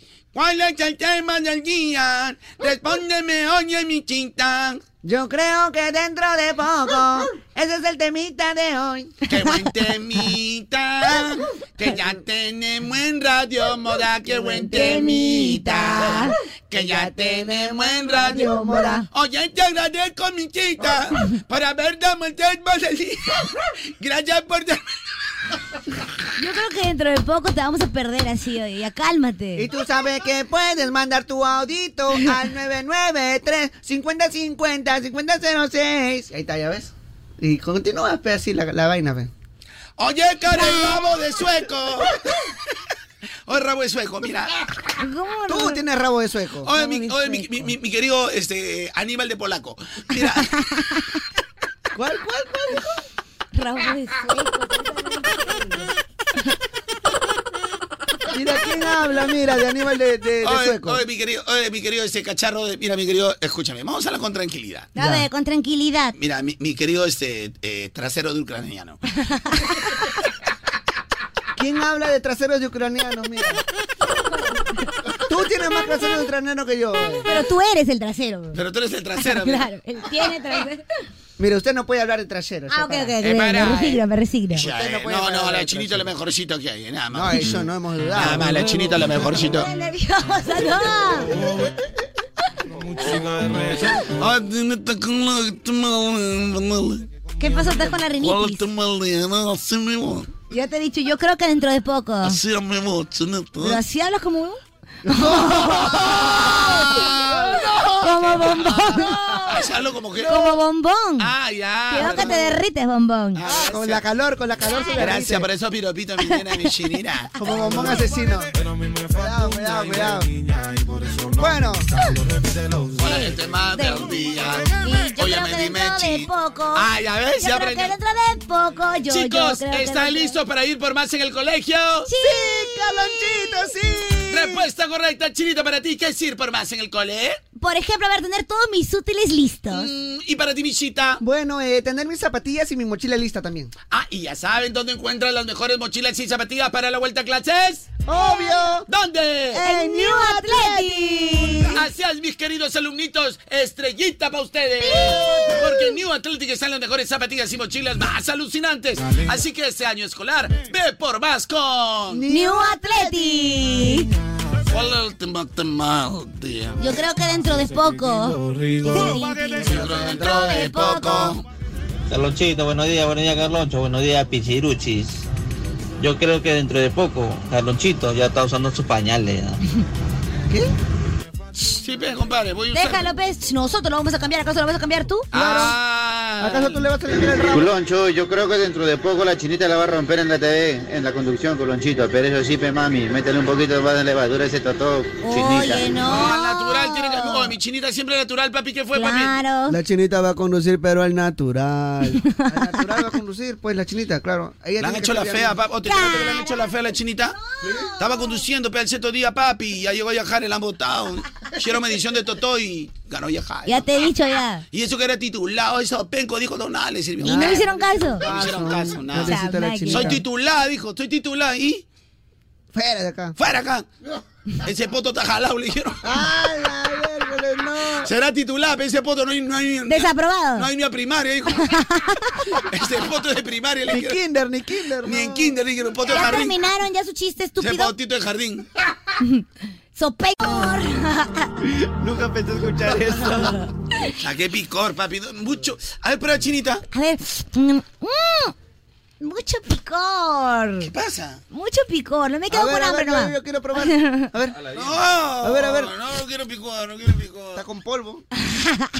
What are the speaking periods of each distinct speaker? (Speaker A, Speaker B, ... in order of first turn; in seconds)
Speaker A: 0.3-4.8, 9.3-18.5, 19.1-24.8, 40.0-42.2, 43.5-44.6, 46.6-50.5, 60.4-64.9, 66.2-69.0, 78.5-79.7, 83.2-84.0, 84.5-87.6, 88.1-89.7, 93.9-97.1, 98.2-100.3, 102.2-103.8, 105.8-110.6, 111.2-112.6, 113.3-114.0, 115.0-118.0, 123.0-127.9, 129.1-132.1, 134.3-137.4, 139.7-141.2, 143.9-147.9, 148.9-149.6, 151.7-162.2, 164.7-166.8, 169.6-171.4, 181.6-183.1, 185.3-186.8, 196.0-199.4, 204.8-207.4, 208.0-214.1, 214.7-221.8, 223.4-223.9, 224.6-226.1, 228.0-231.7, 232.7-234.2, 235.0-236.6, 237.6-238.7, 242.6-243.1, 244.2-246.8, 250.8-251.4, 254.7-257.6
Speaker B: 5.0-9.2, 14.3-14.7, 16.7-19.0, 29.6-39.3, 45.5-46.7, 51.9-52.8, 58.3-61.0, 65.0-65.2, 71.5-73.6, 75.3-77.3, 81.4-83.2, 84.6-86.1, 87.1-88.5, 105.1-106.0, 112.0-112.4, 113.4-115.5, 117.4-118.5, 119.1-120.3, 121.3-121.9, 132.2-134.6, 141.2-143.7, 148.1-148.9, 149.5-151.8, 155.4-155.8, 162.1-163.4, 169.6-170.4, 185.3-185.8, 186.4-187.8, 199.7-205.6, 217.2-220.2, 222.7-223.3, 226.0-228.1, 233.9-235.5, 242.0-243.5, 252.5-254.7, 255.4-255.9, 257.5-258.2
Speaker C: 14.7-16.3, 18.2-19.0, 26.4-29.7, 45.0-45.8, 46.7-47.7, 53.5-55.9, 64.9-66.1, 77.2-78.6, 79.2-80.8, 82.7-84.7, 89.5-91.3, 97.4-98.6, 100.5-102.4, 103.6-107.1, 108.0-109.6, 110.2-111.3, 111.9-113.4, 123.0-124.1, 124.8-126.8, 127.4-130.4, 132.1-133.5, 137.6-139.9, 148.1-148.4, 149.6-151.8, 154.8-155.6, 162.3-164.1, 166.8-171.3, 182.7-185.6, 195.2-197.5, 198.9-199.8, 202.4-202.8, 205.8-206.7, 207.3-208.4, 213.7-214.6, 217.2-218.2, 219.2-220.2, 229.9-230.7, 231.6-232.4, 236.1-237.9, 239.2-241.5, 246.9-248.5, 249.2-250.9, 251.5-253.3, 253.9-254.2, 258.5-258.8
Speaker D: 172.1-175.2, 176.0-179.6
Speaker E: 187.6-195.8